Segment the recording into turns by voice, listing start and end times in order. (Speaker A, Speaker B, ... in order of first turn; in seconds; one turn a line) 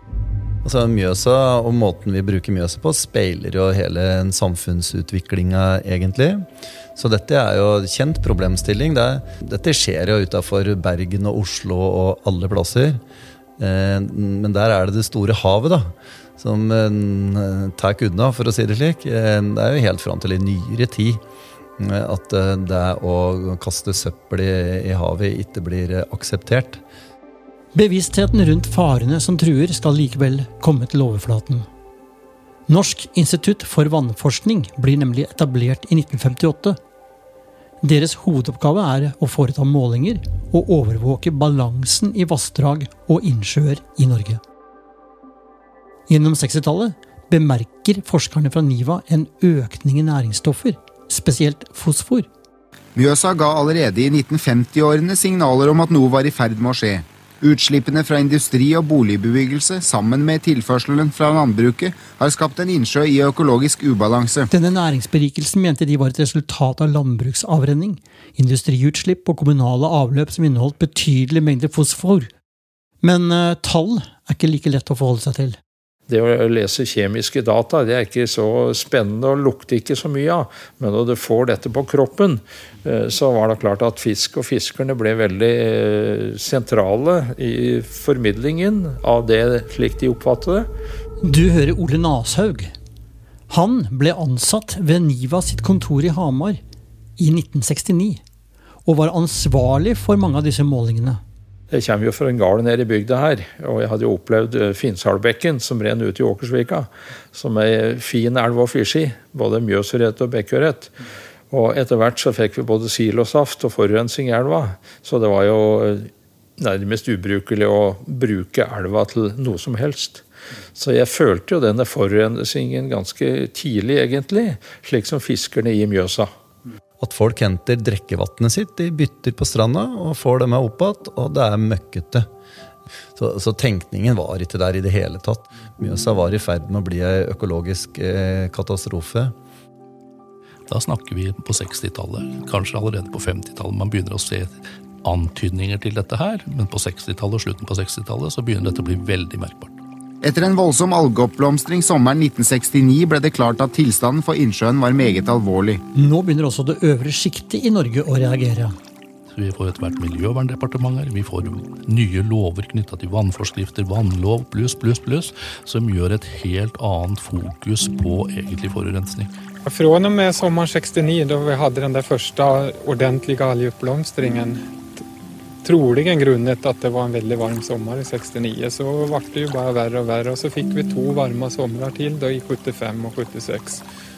Speaker A: 0.6-13.0
Speaker A: 13.6-21.2
Speaker A: 21.8-26.8
Speaker B: 27.7-31.6
Speaker B: 32.7-36.8
Speaker B: 37.8-44.4
Speaker B: 46.1-52.3
Speaker C: 53.0-64.5
Speaker B: 64.5-72.3
Speaker B: 73.0-75.6
Speaker D: 76.1-90.7
Speaker B: 91.2-92.7
Speaker B: 93.5-96.6
Speaker B: 97.2-98.2
Speaker B: 98.8-101.2
Speaker D: 101.7-110.9
Speaker D: 111.5-120.2
Speaker D: 120.7-126.3
Speaker A: 127.0-132.3
Speaker A: 133.2-139.3
Speaker E: 140.7-149.7
Speaker C: 150.2-155.8
Speaker B: 155.9-158.7
Speaker E: 159.3-169.3
Speaker F: 169.7-174.6
Speaker F: 175.6-183.8